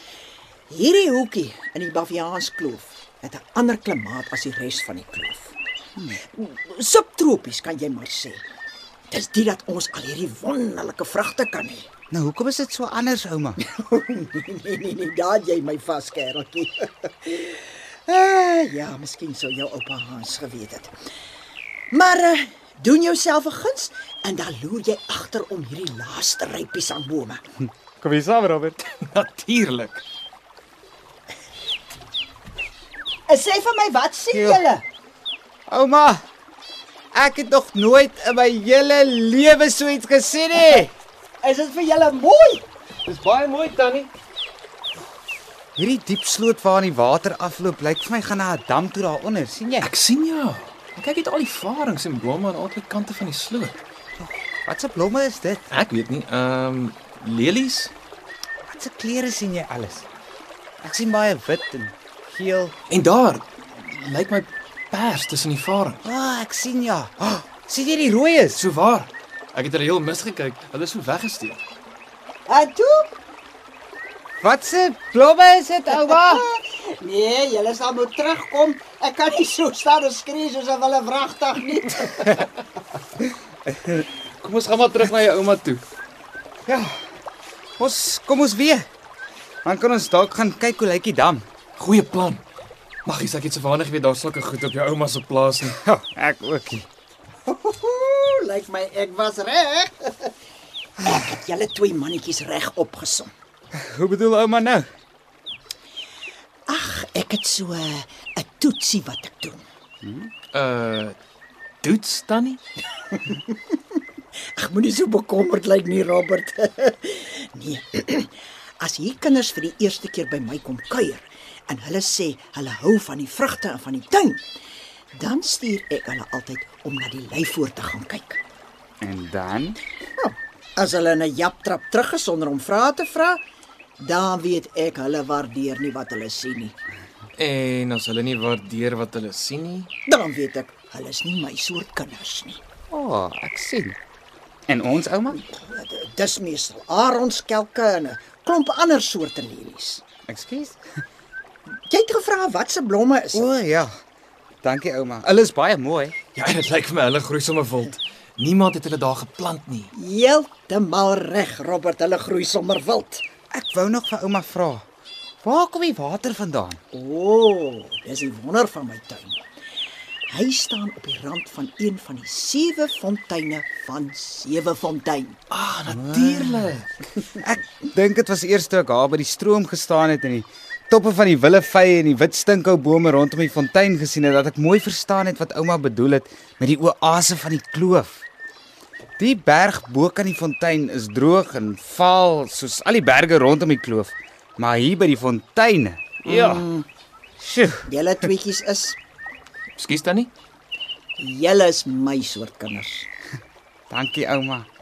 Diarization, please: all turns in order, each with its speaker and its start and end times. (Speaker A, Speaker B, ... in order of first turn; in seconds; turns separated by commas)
Speaker A: 0.7-5.5, Speaker A: 6.2-8.4, Speaker A: 9.1-11.9, Speaker B: 12.1-13.6, Speaker A: 13.6-20.9, Speaker A: 21.9-27.4, Speaker B: 28.0-28.8, Speaker C: 29.0-30.0, Speaker A: 33.3-34.8, Speaker B: 34.3-34.6, Speaker B: 35.7-36.2, Speaker B: 37.1-40.9, Speaker A: 41.4-42.6, Speaker C: 43.0-44.1, Speaker B: 45.8-49.9, Speaker C: 49.8-53.8, Speaker B: 54.2-55.7, Speaker C: 55.7-57.9, Speaker B: 58.7-60.0, Speaker B: 60.8-62.7, Speaker C: 62.9-66.0, Speaker B: 66.0-68.6, Speaker C: 68.5-71.6, Speaker A: 72.5-73.1, Speaker B: 74.4-76.4, Speaker A: 76.0-82.5, Speaker C: 84.4-85.8, Speaker B: 86.7-86.9, Speaker B: 87.8-88.9, Speaker B: 89.6-91.4, Speaker C: 91.8-92.4, Speaker C: 93.0-95.8, Speaker B: 95.8-96.9, Speaker A: 97.5-100.3, Speaker A: 101.0-103.3, Speaker B: 103.7-104.8, Speaker A: 106.7-109.6, Speaker B: 110.0-110.3, Speaker C: 110.5-111.2, Speaker C: 111.8-112.6, Speaker A: 113.2-113.5, Speaker A: 114.6-124.4, Speaker A: 125.1-128.4, Speaker B: 129.0-129.8, Speaker A: 130.2-133.4, Speaker A: 134.0-136.7, Speaker C: 137.4-139.9, Speaker A: 140.1-142.6, Speaker B: 142.9-144.0, Speaker B: 144.7-145.4, Speaker A: 145.3-150.0, Speaker B: 150.3-150.8, Speaker A: 151.8-153.4, Speaker B: 153.3-153.9, Speaker B: 154.6-156.1, Speaker C: 156.3-159.9, Speaker A: 159.9-163.2, Speaker B: 163.5-164.8, Speaker B: 165.4-166.8, Speaker A: 166.9-169.4, Speaker A: 170.3-175.4, Speaker C: 175.5-176.9, Speaker B: 175.9-176.7, Speaker B: 177.2-188.2, Speaker B: 189.2-196.7, Speaker C: 196.3-196.6, Speaker A: 196.5-196.8, Speaker B: 197.4-197.8, Speaker A: 197.8-199.0, Speaker C: 199.8-200.3, Speaker A: 201.2-203.1, Speaker B: 203.9-204.7